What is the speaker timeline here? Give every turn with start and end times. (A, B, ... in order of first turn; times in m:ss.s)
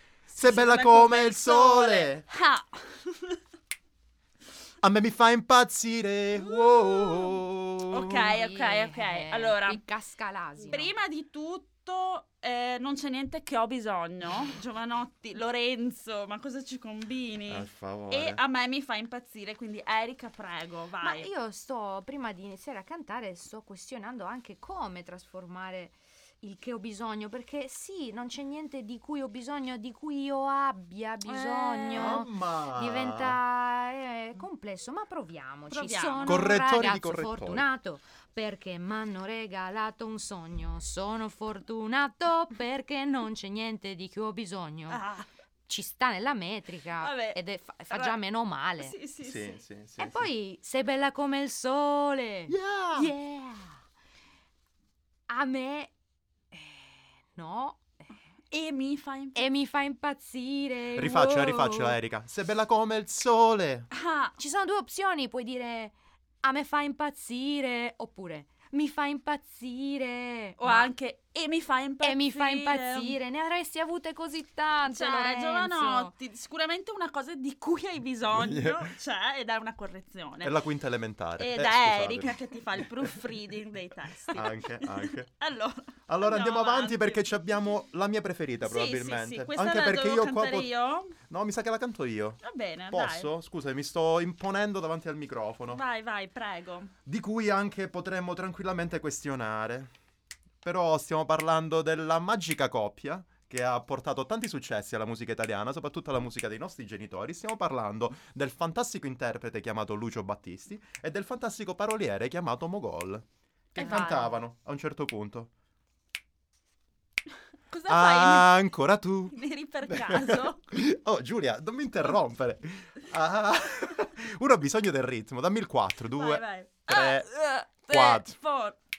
0:00.3-0:02.2 A
0:00.3-0:03.4 B
0:04.8-0:08.3 A
0:07.9-0:09.8 B
0:08.2-0:11.0 C
0:10.6-0:21.3 B
0:17.5-0:18.4 A
0:21.0-0:45.0 C
0:31.2-0:32.2 B
0:31.9-0:33.4 A
0:35.7-0:36.6 B
0:36.2-0:37.7 A
0:44.9-0:45.3 B
0:45.7-0:49.0 C
0:47.0-0:48.1 B
0:48.8-0:49.6 B
0:49.2-0:50.3 A
0:50.0-0:53.7 C
0:52.5-0:53.1 A
0:55.3-0:55.9 C
0:56.5-0:58.0 C
0:58.5-0:59.4 B
0:59.3-1:02.0 C
1:00.9-1:03.9 A
1:03.9-1:04.3 B
1:04.4-1:10.9 C
1:10.6-1:13.2 B
1:12.0-1:16.1 C
1:14.9-1:20.6 B
1:18.3-1:18.9 A
1:20.4-1:23.1 A
1:21.4-1:27.3 B
1:24.3-1:25.3 A
1:26.1-1:35.8 A
1:28.6-1:31.2 B
1:32.4-1:33.3 B
1:35.7-1:36.9 B
1:37.1-1:39.9 A
1:40.6-1:55.5 A
1:53.8-1:54.4 B
1:57.7-1:58.6 B
1:57.9-1:59.3 A
1:59.3-2:00.6 B
1:59.9-2:07.3 A
2:06.1-2:08.8 B
2:07.8-2:08.4 A